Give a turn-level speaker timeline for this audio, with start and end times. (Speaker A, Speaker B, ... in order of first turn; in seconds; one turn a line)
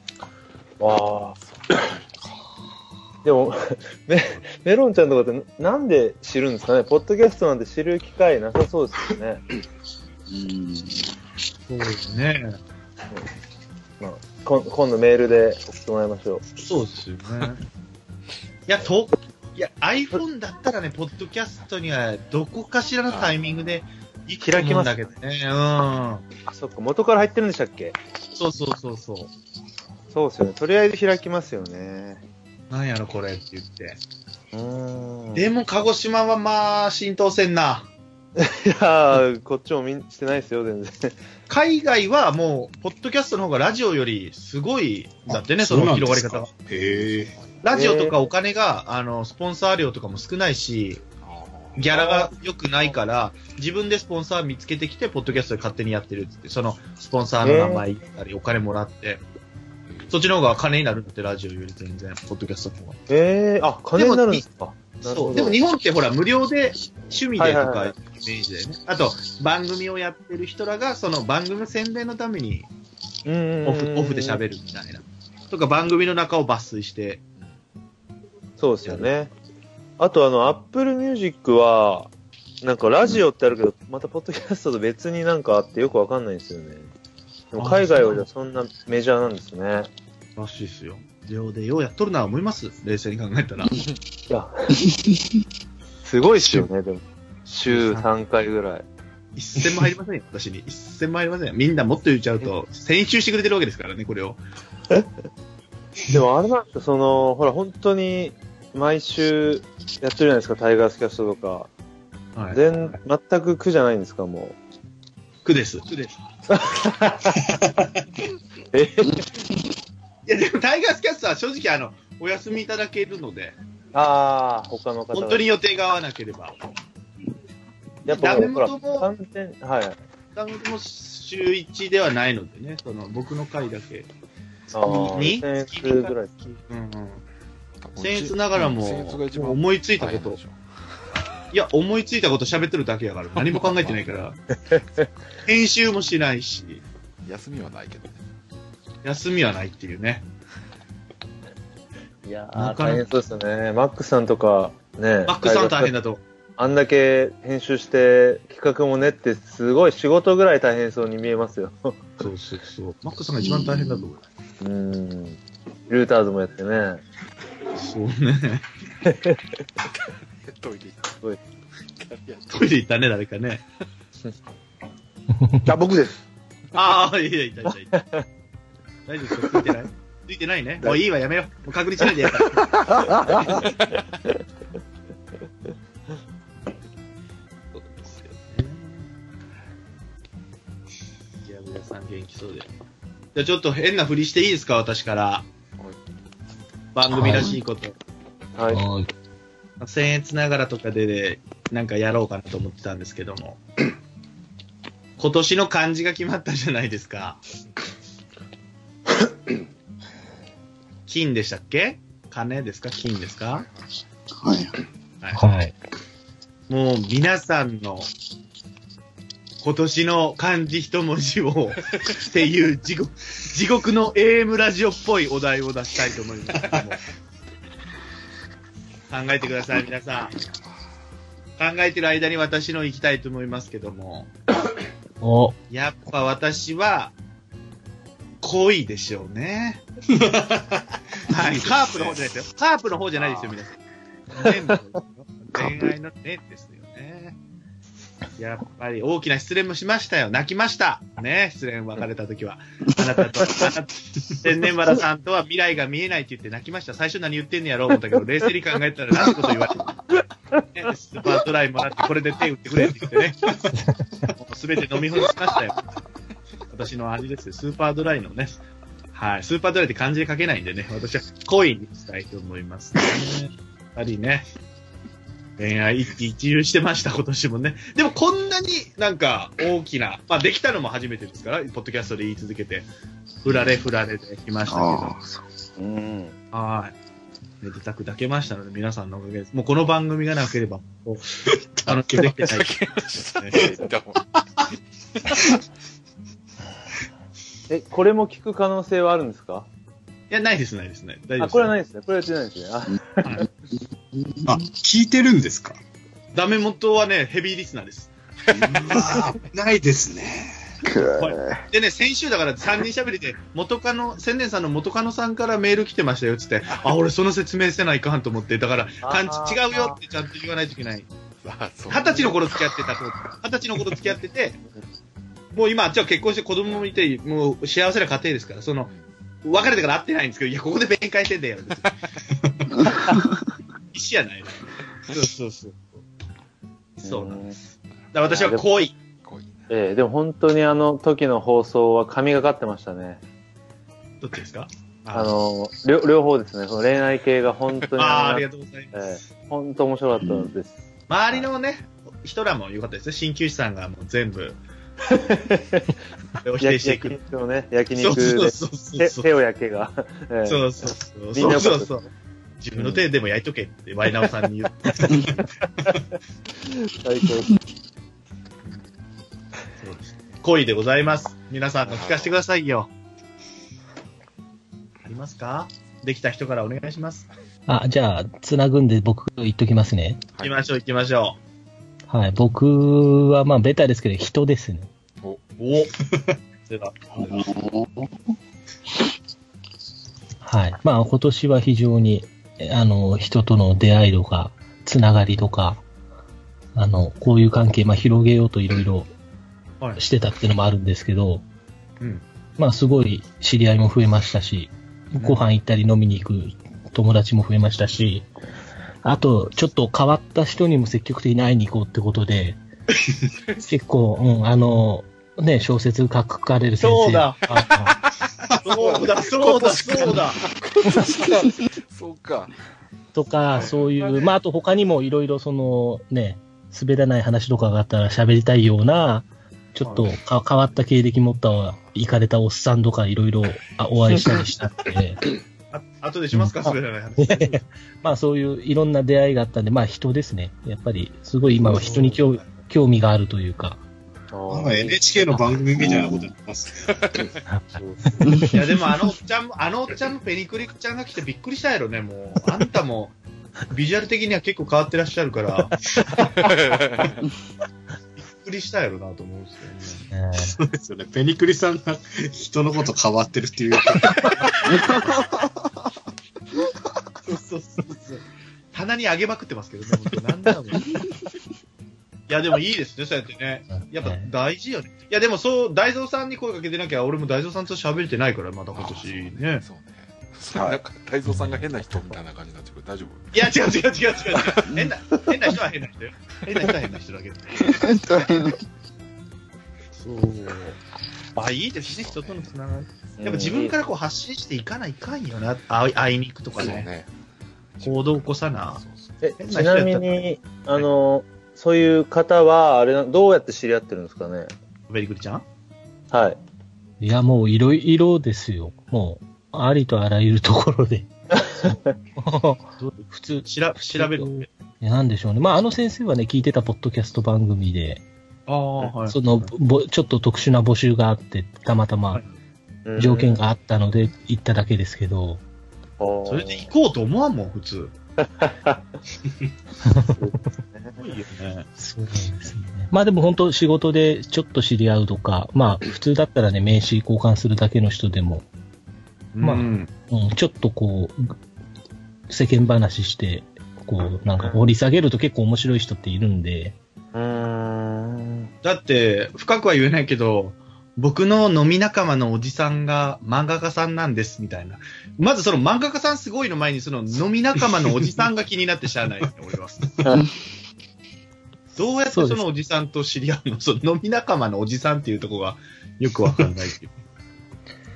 Speaker A: 0.8-1.4
Speaker B: 1.4-2.4
Speaker A: 3.2-9.4
Speaker C: 10.3-11.1
Speaker D: 11.7-12.6
Speaker A: 14.0-16.4
Speaker D: 16.6-17.6
Speaker D: 18.7-26.2
Speaker B: 23.1-23.4
Speaker A: 24.4-25.1
Speaker A: 26.5-28.0
Speaker D: 28.4-29.3
Speaker A: 30.1-32.2
Speaker D: 32.7-34.0
Speaker A: 34.5-35.5
Speaker D: 35.4-37.9
Speaker A: 38.4-41.1
Speaker D: 41.5-46.5
Speaker E: 45.3-47.3
Speaker B: 46.7-47.6
Speaker D: 47.6-51.0
Speaker A: 47.7-48.2
Speaker B: 51.2-52.0
Speaker D: 51.8-59.2
Speaker A: 52.0-52.3
Speaker A: 57.4-57.9
Speaker B: 59.9-60.2
Speaker D: 60.1-63.0
Speaker A: 63.1-65.6
Speaker D: 64.0-64.4
Speaker D: 65.0-72.7
Speaker A: 67.4-67.9
Speaker A: 73.2-74.4
Speaker D: 73.7-77.2
Speaker A: 78.6-79.3
Speaker A: 80.0-82.1
Speaker A: 82.6-86.9
Speaker A: 87.5-89.9
Speaker D: 87.6-88.2
Speaker D: 90.4-93.8
Speaker A: 96.0-98.8
Speaker D: 97.7-98.1
Speaker D: 99.4-104.4
Speaker A: 106.1-111.7
Speaker D: 112.4-113.0
Speaker A: 112.5-114.6
Speaker D: 115.5-116.1
Speaker A: 116.5-117.6
Speaker A: 118.7-119.2
Speaker D: 120.3-123.6
Speaker A: 123.9-125.5
Speaker D: 125.1-126.6
Speaker A: 128.1-130.0
Speaker D: 128.1-129.1
Speaker D: 130.4-134.1
Speaker A: 134.7-136.6
Speaker D: 134.8-137.2
Speaker B: 137.8-140.6
Speaker D: 138.0-140.4
Speaker D: 141.5-144.4
Speaker B: 143.3-144.0
Speaker A: 144.7-145.0
Speaker D: 145.4-146.8
Speaker B: 147.2-148.2
Speaker D: 149.0-150.2
Speaker A: 152.3-155.9
Speaker D: 152.6-153.1
Speaker D: 155.3-156.2
Speaker A: 156.6-162.0
Speaker D: 162.2-164.2
Speaker A: 164.6-167.0
Speaker D: 167.8-168.7
Speaker A: 169.1-169.4
Speaker B: 170.4-171.2
Speaker B: 172.0-172.5
Speaker D: 172.5-173.6
Speaker F: 175.6-176.2
Speaker D: 176.7-178.0
Speaker A: 178.0-178.2
Speaker D: 179.1-183.0
Speaker F: 182.6-183.6
Speaker B: 183.7-184.0
Speaker D: 187.8-189.1
Speaker D: 191.5-192.7
Speaker D: 193.3-195.4
Speaker D: 196.9-197.9
Speaker G: 197.1-197.6
Speaker A: 198.6-198.8
Speaker G: 198.7-199.1
Speaker D: 199.8-203.6
Speaker D: 205.2-207.4
Speaker D: 211.1-213.7
Speaker B: 213.5-213.9
Speaker C: 214.4-214.8
Speaker G: 215.3-215.7
Speaker D: 216.7-218.1
Speaker D: 219.6-227.0
Speaker D: 229.1-230.4
Speaker D: 231.6-234.3
Speaker G: 235.2-235.6
Speaker D: 235.7-237.2
Speaker D: 238.4-239.8
Speaker E: 240.1-241.5
Speaker D: 241.3-243.8
Speaker D: 244.3-247.4
Speaker D: 248.4-260.0
Speaker D: 260.7-263.5
Speaker D: 264.4-265.8
Speaker D: 266.7-268.6
Speaker D: 269.1-274.5
Speaker D: 275.6-282.9
Speaker D: 283.4-285.1
Speaker C: 284.7-285.5
Speaker A: 285.8-286.3
Speaker D: 286.5-286.9
Speaker D: 287.6-292.7
Speaker E: 291.8-292.4
Speaker B: 292.2-294.2
Speaker A: 297.7-299.7
Speaker D: 300.3-301.7
Speaker A: 301.4-303.4
Speaker C: 304.2-304.5
Speaker E: 304.4-305.8
Speaker D: 306.3-308.1
Speaker E: 308.7-310.6
Speaker C: 310.8-311.6
Speaker D: 311.1-321.1
Speaker A: 319.0-320.0
Speaker B: 321.4-322.9
Speaker D: 321.9-324.6
Speaker D: 325.6-328.9
Speaker B: 328.9-329.8
Speaker D: 329.4-331.9
Speaker D: 333.9-336.0
Speaker D: 337.0-337.5
Speaker A: 337.0-337.6
Speaker D: 338.1-338.9
Speaker A: 338.3-338.7
Speaker B: 339.2-339.7
Speaker A: 339.7-343.2
Speaker D: 344.2-345.4
Speaker A: 345.1-351.5
Speaker D: 348.0-349.1
Speaker D: 351.1-354.6
Speaker A: 355.1-355.9
Speaker D: 356.4-357.2
Speaker A: 356.6-360.6
Speaker D: 358.0-359.3
Speaker D: 360.5-362.1
Speaker A: 361.3-361.9
Speaker D: 362.6-365.4
Speaker A: 362.8-363.1
Speaker A: 366.7-367.6
Speaker D: 369.8-372.9
Speaker B: 371.9-372.4
Speaker D: 375.1-377.3
Speaker G: 377.7-380.3
Speaker B: 380.4-380.6
Speaker D: 380.4-381.4
Speaker G: 382.1-384.9
Speaker D: 385.6-385.9
Speaker D: 386.7-387.5
Speaker C: 387.2-388.1
Speaker G: 390.4-395.8
Speaker G: 396.8-399.1
Speaker G: 400.0-401.4
Speaker G: 402.6-408.3
Speaker D: 405.2-405.5
Speaker G: 409.0-412.6
Speaker G: 413.6-417.9
Speaker D: 416.8-417.7
Speaker B: 417.6-417.9
Speaker B: 418.6-422.5
Speaker D: 418.6-420.4
Speaker G: 423.1-435.2
Speaker B: 423.5-424.2
Speaker D: 429.8-430.1
Speaker B: 431.5-432.0
Speaker D: 435.7-437.6
Speaker G: 436.3-443.8
Speaker D: 441.6-442.6
Speaker A: 444.3-445.0
Speaker E: 444.5-447.0
Speaker C: 445.8-446.2
Speaker B: 446.9-447.3
Speaker G: 447.5-448.5
Speaker C: 448.2-448.6
Speaker D: 448.5-453.2
Speaker D: 453.7-455.8
Speaker B: 456.4-457.2
Speaker D: 458.3-460.1
Speaker G: 460.1-460.6
Speaker E: 460.5-464.8
Speaker D: 467.3-470.8
Speaker D: 472.3-479.6
Speaker G: 473.7-474.3
Speaker B: 478.7-483.6
Speaker F: 480.5-480.8
Speaker G: 481.2-482.1
Speaker D: 483.3-488.3
Speaker B: 484.3-484.8
Speaker C: 487.6-488.6
Speaker D: 490.0-490.8
Speaker D: 491.4-496.9
Speaker B: 491.8-492.5
Speaker A: 493.2-493.8
Speaker B: 496.6-497.1
Speaker B: 497.8-499.2
Speaker D: 497.8-498.8
Speaker A: 499.2-504.5
Speaker D: 499.4-500.9
Speaker D: 504.9-505.4
Speaker A: 506.1-506.4
Speaker G: 507.0-518.0
Speaker D: 512.8-514.5
Speaker D: 518.5-519.5
Speaker G: 519.1-522.2
Speaker A: 522.9-523.4
Speaker G: 523.0-525.4
Speaker A: 526.0-526.7
Speaker D: 526.3-527.9
Speaker A: 528.2-528.8
Speaker G: 529.9-530.2
Speaker A: 530.1-531.0
Speaker D: 531.0-531.7
Speaker G: 531.8-538.5
Speaker D: 539.3-539.9
Speaker G: 539.4-541.3
Speaker G: 542.3-546.8
Speaker A: 544.4-544.6
Speaker A: 547.1-548.5
Speaker D: 548.6-560.0
Speaker D: 561.8-566.9
Speaker G: 562.1-562.5